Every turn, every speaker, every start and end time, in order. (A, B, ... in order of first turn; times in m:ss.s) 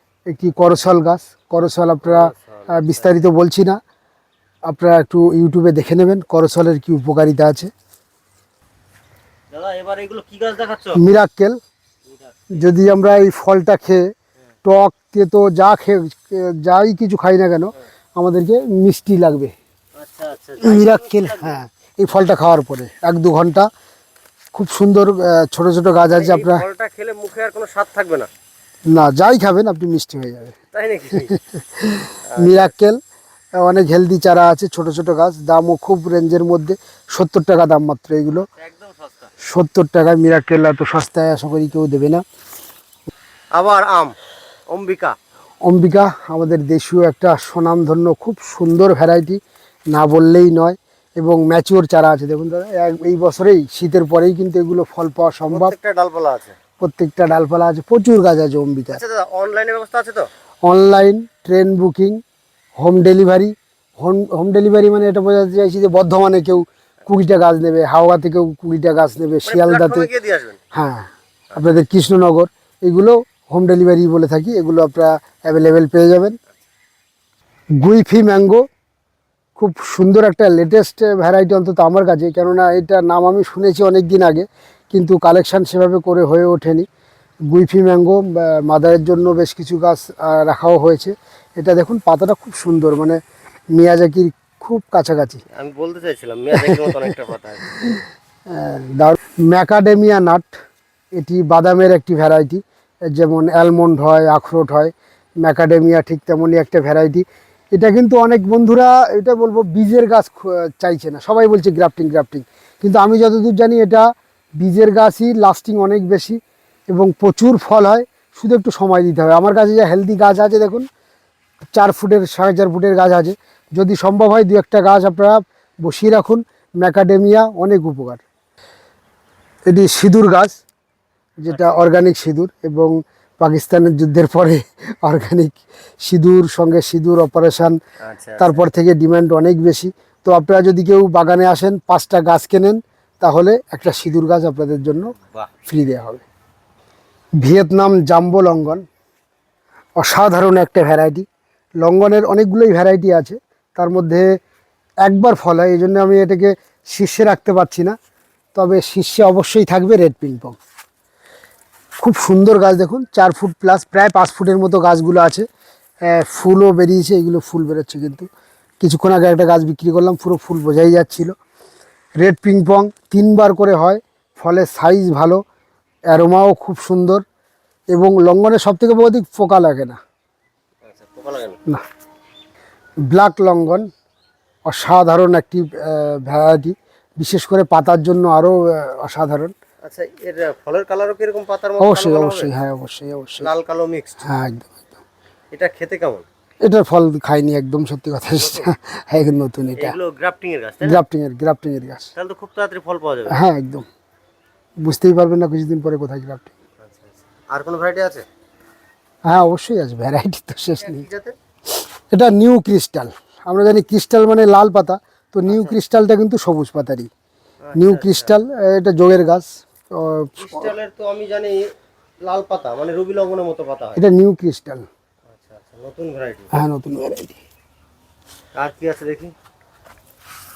0:00.3-0:03.8 A
0:02.0-0:03.2 B
0:04.7-0:07.7 A
0:09.5-0:11.0 B
0:10.9-0:11.6 A
0:12.1-0:12.6 B
0:12.5-0:14.1 A
0:14.6-0:19.5 A
0:20.0-0:21.6 B
0:20.6-0:23.7 A
0:24.5-0:26.7 A
0:26.0-0:28.3 B
0:28.9-0:30.6 A
0:30.7-0:31.3 B
0:31.2-0:33.0 A
0:32.3-0:32.7 B
0:33.6-0:38.5 A
0:38.6-0:39.3 B
0:39.4-0:42.2 A
0:43.6-0:44.2 B
0:44.7-0:45.2 B
0:45.6-0:49.4 A
0:49.9-0:55.7 A
0:55.5-0:56.6 B
0:56.8-0:59.0 A
0:58.9-1:00.3 B
1:00.6-1:02.2 A
1:02.8-1:10.1 A
1:09.4-1:10.6 B
1:10.7-1:16.4 A
1:17.8-1:18.6 A
1:19.6-1:26.9 A
1:27.5-1:33.2 A
1:33.7-1:35.4 A
1:35.6-1:37.7 B
1:36.5-1:36.9 A
1:37.7-1:40.6 A
1:41.2-1:54.1 A
1:54.6-1:56.4 A
1:56.9-2:00.8 A
2:01.7-2:08.2 A
2:09.7-2:10.6 A
2:11.4-2:17.8 A
2:11.5-2:11.8 B
2:18.0-2:18.6 B
2:18.4-2:25.1 A
2:25.2-2:25.5 B
2:25.7-2:26.2 A
2:27.4-2:28.8 A
2:30.0-2:31.3 A
2:31.8-2:34.4 A
2:35.0-2:38.0 A
2:38.6-2:40.6 A
2:42.0-2:45.5 A
2:46.0-2:48.3 A
2:48.8-2:51.3 A
2:52.2-2:55.4 A
2:56.1-2:57.2 A
2:57.9-3:00.0 A
3:00.8-3:01.6 B
3:03.1-3:03.9 A
3:04.7-3:09.5 A
3:09.8-3:12.5 B
3:11.8-3:13.5 A
3:13.4-3:14.2 B
3:14.2-3:15.0 A
3:15.5-3:16.2 B
3:16.6-3:20.0 A
3:18.3-3:18.7 B
3:19.8-3:21.0 B
3:20.8-3:22.1 A
3:22.2-3:23.4 B
3:23.3-3:23.9 A
3:24.8-3:26.5 A
3:26.8-3:28.2 B
3:29.3-3:31.1 A
3:30.8-3:31.4 B
3:32.1-3:37.1 A
3:35.5-3:35.8 B
3:37.6-3:38.4 B
3:37.8-3:40.7 A
3:40.4-3:41.6 B
3:42.2-3:44.0 B
3:44.0-3:44.9 A
3:45.3-3:46.5 B
3:46.5-3:47.4 A
3:48.6-3:49.3 B